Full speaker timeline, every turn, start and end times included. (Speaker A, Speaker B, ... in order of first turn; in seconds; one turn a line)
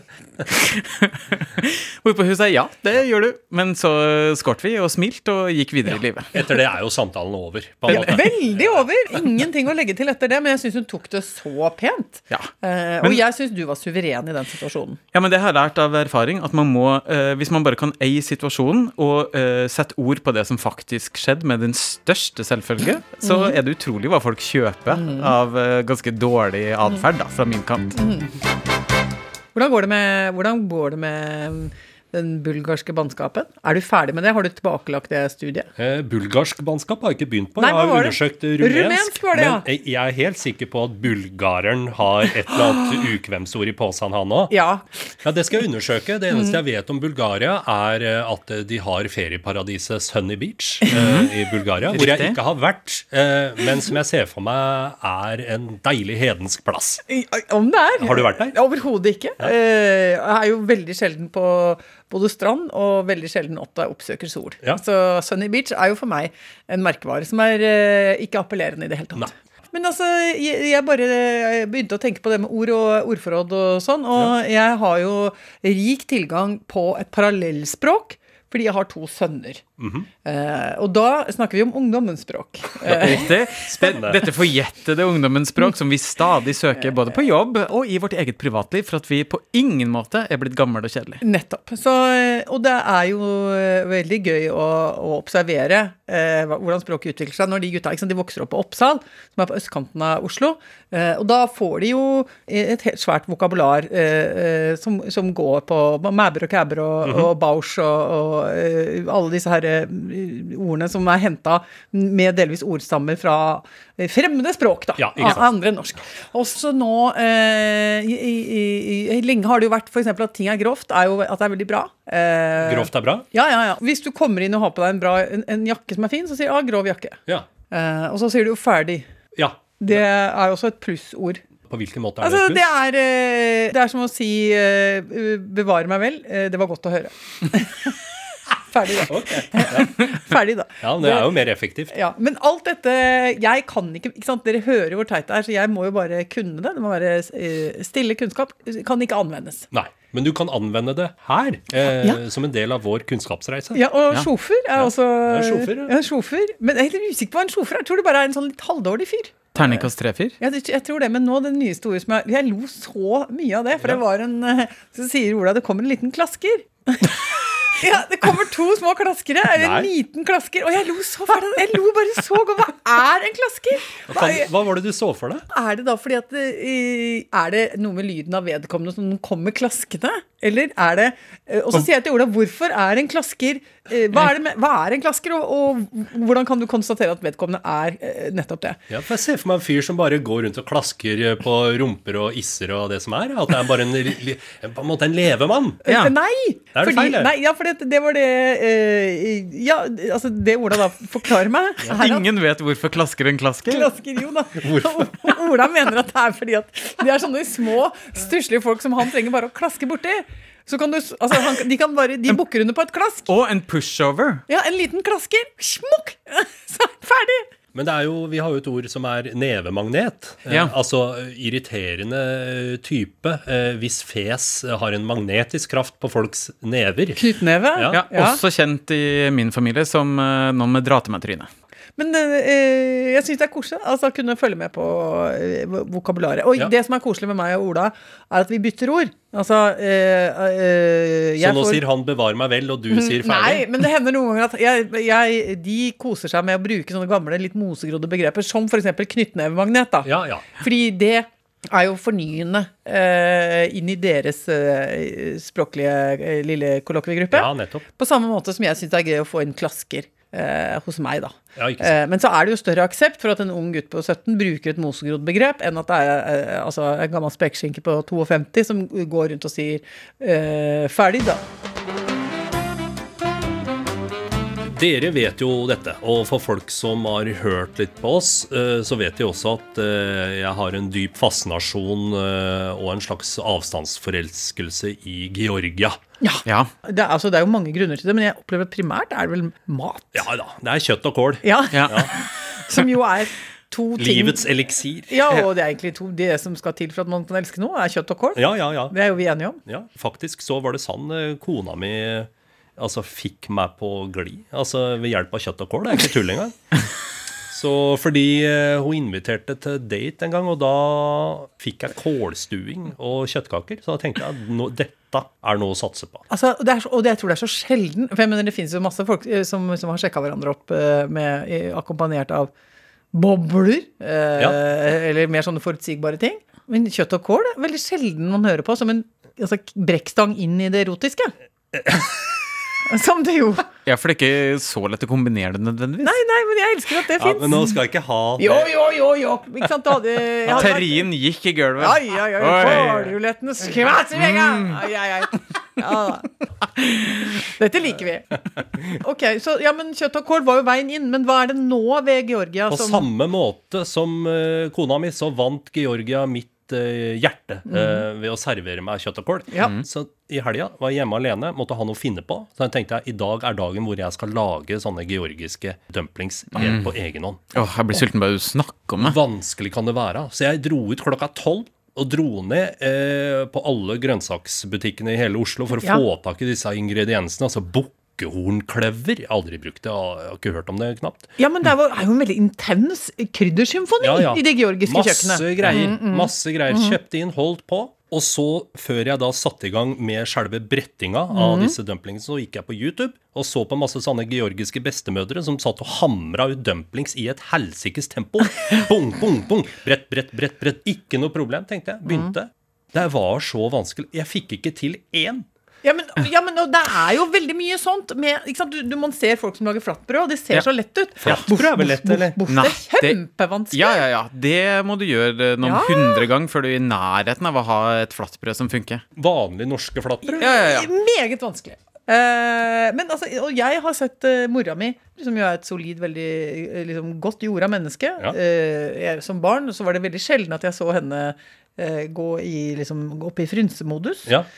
Speaker A: 0.5-6.4
Speaker B: 6.3-8.8
Speaker C: 7.9-15.0
Speaker A: 15.1-28.0
Speaker C: 23.2-23.6
Speaker C: 24.9-25.3
Speaker C: 28.0-28.3
Speaker C: 29.6-35.7
Speaker B: 35.8-44.5
Speaker C: 37.6-39.6
Speaker C: 44.5-44.9
Speaker B: 45.2-57.0
Speaker A: 50.9-51.3
Speaker A: 51.9-52.4
Speaker C: 57.1-79.6
Speaker B: 58.0-58.6
Speaker B: 79.8-80.1
Speaker C: 80.2-83.2
Speaker B: 82.9-84.3
Speaker A: 82.9-91.2
Speaker C: 91.2-129.1
Speaker B: 107.0-107.3
Speaker B: 115.0-115.5
Speaker B: 122.6-123.3
Speaker B: 129.3-130.0
Speaker C: 129.8-131.4
Speaker B: 131.7-132.6
Speaker C: 132.2-138.0
Speaker C: 138.7-141.3
Speaker B: 139.0-139.9
Speaker B: 140.8-141.9
Speaker C: 141.9-149.7
Speaker B: 149.7-153.8
Speaker C: 153.7-159.9
Speaker B: 154.8-155.9
Speaker A: 159.6-160.4
Speaker C: 160.4-174.5
Speaker B: 169.6-169.9
Speaker B: 174.1-175.5
Speaker C: 175.5-188.8
Speaker B: 188.9-195.8
Speaker C: 195.8-202.3
Speaker A: 195.9-196.1
Speaker B: 196.8-197.3
Speaker A: 201.9-203.9
Speaker C: 203.7-213.3
Speaker B: 204.6-205.3
Speaker A: 213.3-214.4
Speaker C: 214.5-217.5
Speaker B: 217.7-227.2
Speaker A: 220.5-220.7
Speaker C: 227.2-228.4
Speaker B: 227.7-228.0
Speaker A: 227.9-231.5
Speaker C: 232.0-241.8
Speaker B: 241.4-243.7
Speaker C: 242.9-271.4
Speaker B: 250.1-250.5
Speaker B: 257.3-257.9
Speaker B: 261.6-261.9
Speaker B: 274.6-286.0
Speaker C: 286.2-290.3
Speaker B: 290.1-292.1
Speaker C: 291.4-294.4
Speaker A: 291.7-292.1
Speaker B: 294.0-295.3
Speaker C: 295.1-299.6
Speaker B: 298.4-298.9
Speaker B: 299.7-306.6
Speaker B: 307.5-316.2
Speaker C: 316.3-322.5
Speaker C: 323.1-331.3
Speaker B: 331.7-332.1
Speaker C: 332.9-333.7
Speaker A: 333.9-336.1
Speaker C: 336.0-337.8
Speaker B: 337.2-338.7
Speaker C: 338.4-341.1
Speaker A: 340.5-343.1
Speaker C: 341.8-346.3
Speaker C: 347.2-348.3
Speaker C: 348.8-353.1
Speaker B: 352.7-367.4
Speaker C: 357.7-358.0
Speaker A: 366.6-366.9
Speaker A: 367.5-369.2
Speaker B: 369.0-381.3
Speaker C: 381.4-387.0
Speaker B: 384.0-405.5
Speaker C: 391.3-391.8
Speaker C: 405.8-414.0
Speaker B: 411.2-412.4
Speaker A: 412.5-413.2
Speaker A: 413.7-419.0
Speaker C: 415.6-416.3
Speaker B: 419.2-420.6
Speaker C: 420.2-434.4
Speaker A: 420.4-420.9